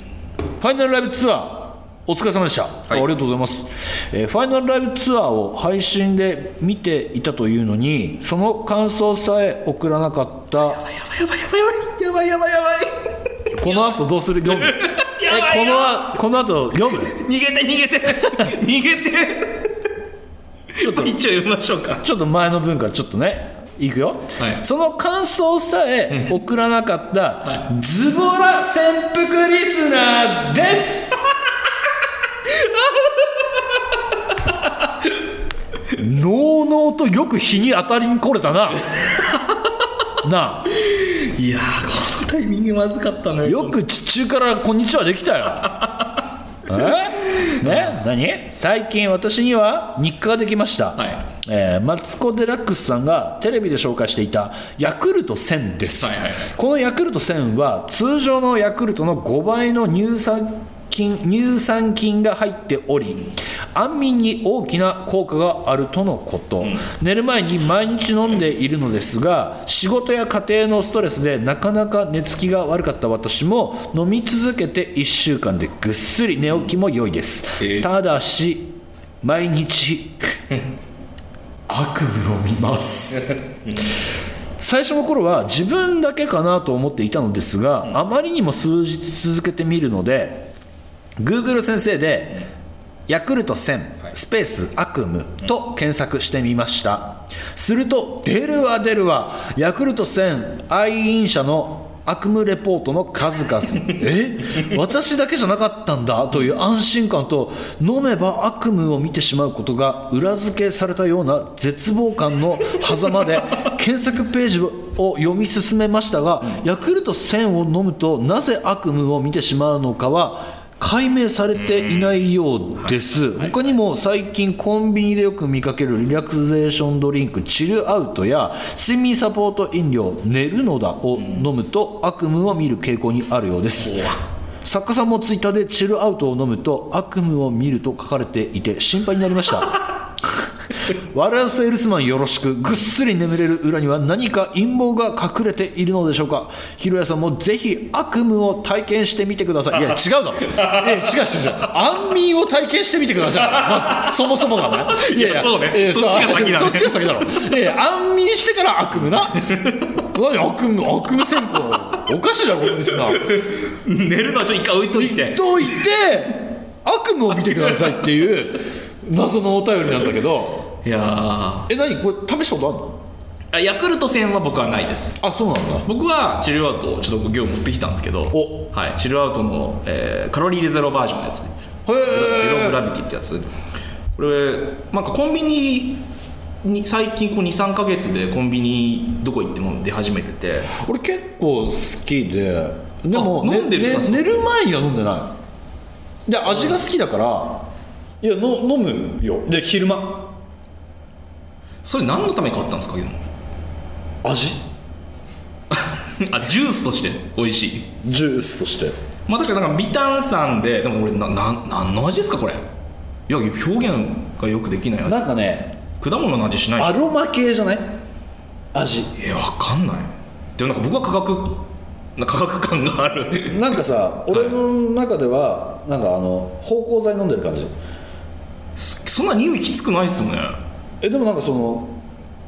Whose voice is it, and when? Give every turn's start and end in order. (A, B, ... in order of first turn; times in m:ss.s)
0:00.6-0:10.8 A
0:10.7-0:13.0 B
0:13.5-0:17.2 A
0:14.6-0:16.1 B
0:17.1-0:19.7 B
0:20.8-0:22.0 B
0:20.8-0:21.2 A
0:22.0-0:31.2 A
0:32.6-0:32.8 B
0:35.9-0:38.8 A
0:38.9-0:39.7 B
0:40.2-0:40.7 A
0:40.8-0:43.8 B
0:43.4-0:45.8 A
0:45.6-0:46.2 B
0:46.6-1:20.2 A
0:47.4-0:47.9 B
0:51.0-0:51.2 B
0:56.0-0:56.5 B
1:17.6-1:17.9 B
1:21.7-1:23.4 A
1:23.1-1:23.8 B
1:24.6-1:30.5 A
1:31.2-1:32.5 A
1:33.1-2:14.1 A
2:01.6-2:02.1 B
2:13.8-2:14.2 B
2:14.6-2:43.4 A
2:30.5-2:31.0 B
2:33.5-2:34.1 B
2:34.9-2:37.1 B
2:39.5-2:39.8 B
2:43.1-2:45.7 B
2:44.9-2:50.7 A
2:50.8-2:51.7 B
2:51.7-2:53.0 A
2:53.5-2:55.2 B
2:55.2-2:55.9 A
2:55.8-3:03.5 B
2:58.3-2:58.6 A
3:01.8-3:02.8 A
3:04.2-3:06.0 B
3:06.6-3:10.7 B
3:10.7-3:15.4 A
3:13.1-3:14.3 B
3:16.2-3:17.7 A
3:18.2-3:20.4 A
3:21.8-3:23.3 B
3:24.2-3:24.6 A
3:25.7-3:27.9 B
3:28.0-3:28.9 A
3:29.3-3:32.6 B
3:33.3-3:35.2 B
3:35.0-3:35.8 A
3:36.0-3:37.0 B
3:36.8-3:38.0 A
3:38.7-3:39.1 A
3:39.2-3:43.8 B
3:43.4-3:47.7 A
3:48.8-3:50.6 B
3:51.0-3:52.0 A